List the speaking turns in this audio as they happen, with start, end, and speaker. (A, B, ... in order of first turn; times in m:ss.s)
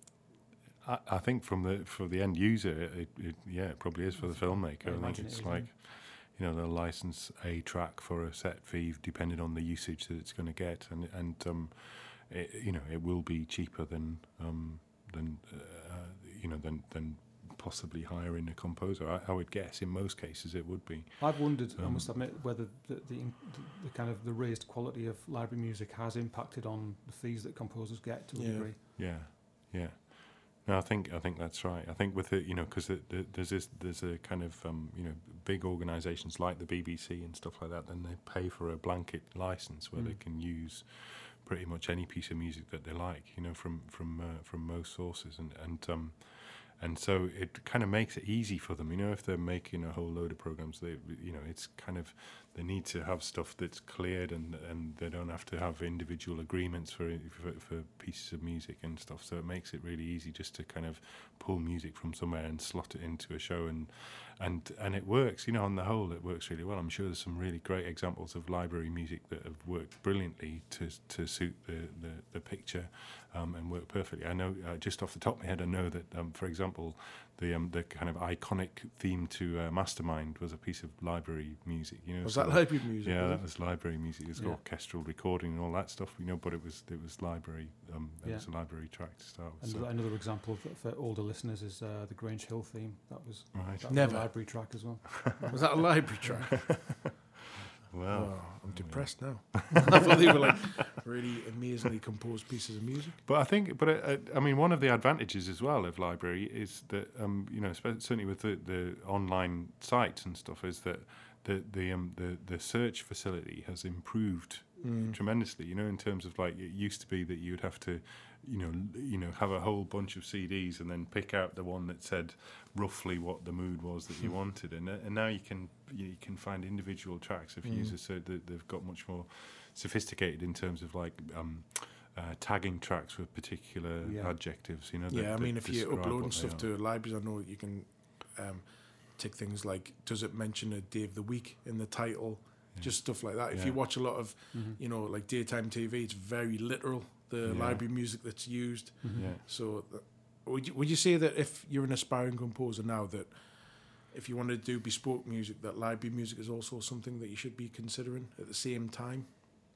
0:00.8-0:22.1 A
0:04.2-0:05.7 B
0:21.2-0:28.8 B
0:28.3-0:28.7 C
0:28.9-1:30.0 A
1:22.2-1:23.5 C
1:24.3-1:24.6 B
1:28.2-1:36.0 B
1:33.5-1:34.4 A
1:33.9-1:34.8 C
1:35.5-1:37.2 C
1:36.5-1:37.2 A
1:37.9-1:40.1 A
1:38.1-1:43.2 C
1:43.2-2:16.7 A
1:54.8-1:55.2 C
2:07.6-2:07.9 C
2:14.0-2:14.4 B
2:15.1-2:39.4 C
2:22.7-2:23.8 A
2:24.5-2:24.8 B
2:27.4-2:27.9 A
2:29.0-2:29.3 B
2:29.1-2:29.4 A